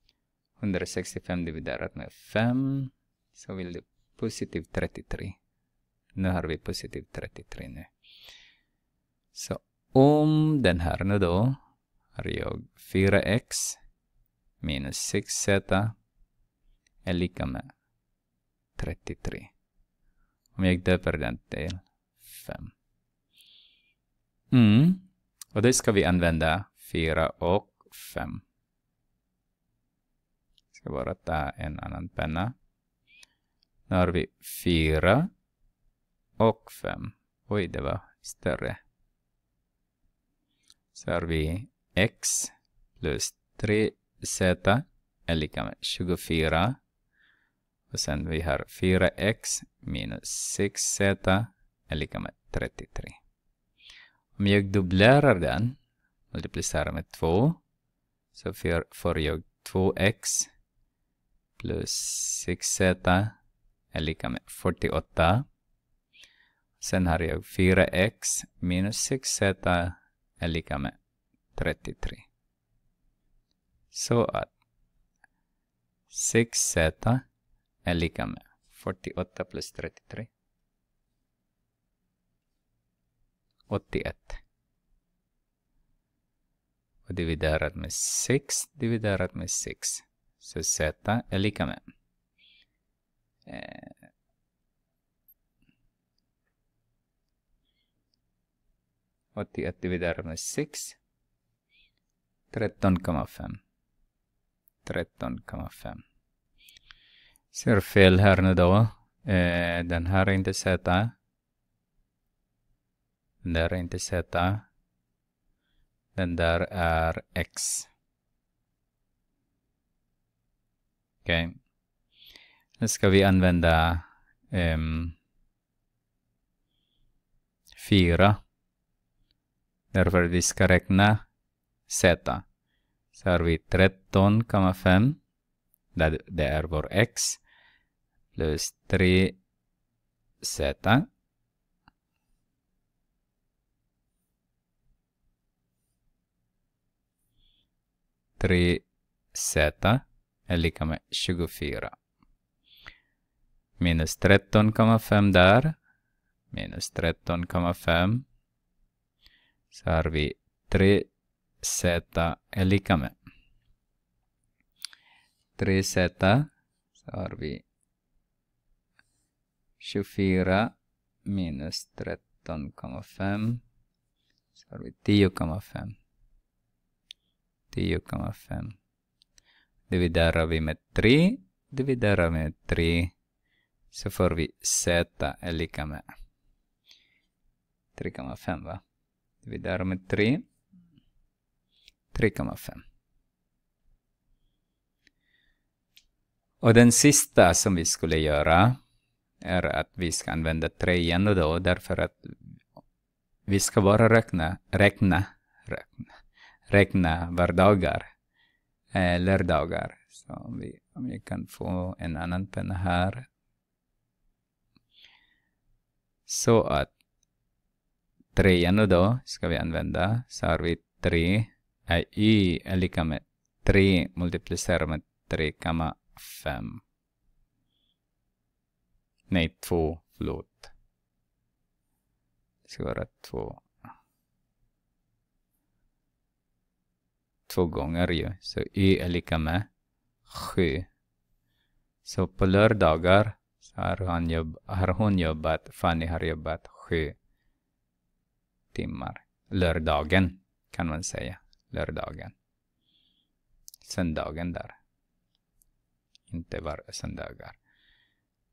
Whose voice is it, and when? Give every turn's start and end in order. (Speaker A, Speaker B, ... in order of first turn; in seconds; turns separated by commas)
Speaker A: 0.6-5.4, Speaker A: 6.2-7.9, Speaker A: 9.3-11.6, Speaker A: 12.2-13.8, Speaker A: 14.6-15.9, Speaker A: 17.0-17.7, Speaker A: 18.8-19.5, Speaker A: 20.6-22.7, Speaker A: 24.5-28.4, Speaker A: 30.7-32.5, Speaker A: 33.9-35.3, Speaker A: 36.4-38.8, Speaker A: 40.9-46.8, Speaker A: 47.9-53.2, Speaker A: 54.4-55.8, Speaker A: 56.3-57.6, Speaker A: 58.3-60.5, Speaker A: 61.6-63.4, Speaker A: 63.9-65.5, Speaker A: 66.8-71.0, Speaker A: 71.5-72.2, Speaker A: 73.9-74.5, Speaker A: 76.1-77.2, Speaker A: 77.8-80.3, Speaker A: 83.7-84.4, Speaker A: 87.1-91.8, Speaker A: 93.5-94.0, Speaker A: 99.3-101.0, Speaker A: 102.5-103.6, Speaker A: 104.8-106.0, Speaker A: 107.5-111.1, Speaker A: 113.4-114.7, Speaker A: 116.2-117.9, Speaker A: 121.2-121.6, Speaker A: 122.8-125.2, Speaker A: 127.8-128.4, Speaker A: 129.9-131.2, Speaker A: 131.9-132.4, Speaker A: 133.1-135.2, Speaker A: 135.9-137.4, Speaker A: 138.3-139.4, Speaker A: 140.4-141.1, Speaker A: 148.4-151.9, Speaker A: 153.8-155.8, Speaker A: 156.5-158.2, Speaker A: 159.7-161.1, Speaker A: 161.6-163.1, Speaker A: 165.6-167.6, Speaker A: 169.8-170.7, Speaker A: 171.2-173.6, Speaker A: 174.5-176.0, Speaker A: 177.7-178.8, Speaker A: 179.9-183.1, Speaker A: 183.9-186.0, Speaker A: 187.9-188.8, Speaker A: 189.4-190.4, Speaker A: 192.1-192.8, Speaker A: 196.6-198.8, Speaker A: 199.4-202.4, Speaker A: 203.5-206.2, Speaker A: 206.7-208.1, Speaker A: 208.9-213.3, Speaker A: 216.3-216.9, Speaker A: 218.3-226.8, Speaker A: 229.3-230.7, Speaker A: 232.7-233.7, Speaker A: 237.5-239.7, Speaker A: 240.3-240.9, Speaker A: 242.0-247.2, Speaker A: 248.7-252.3, Speaker A: 253.8-254.8, Speaker A: 256.3-257.6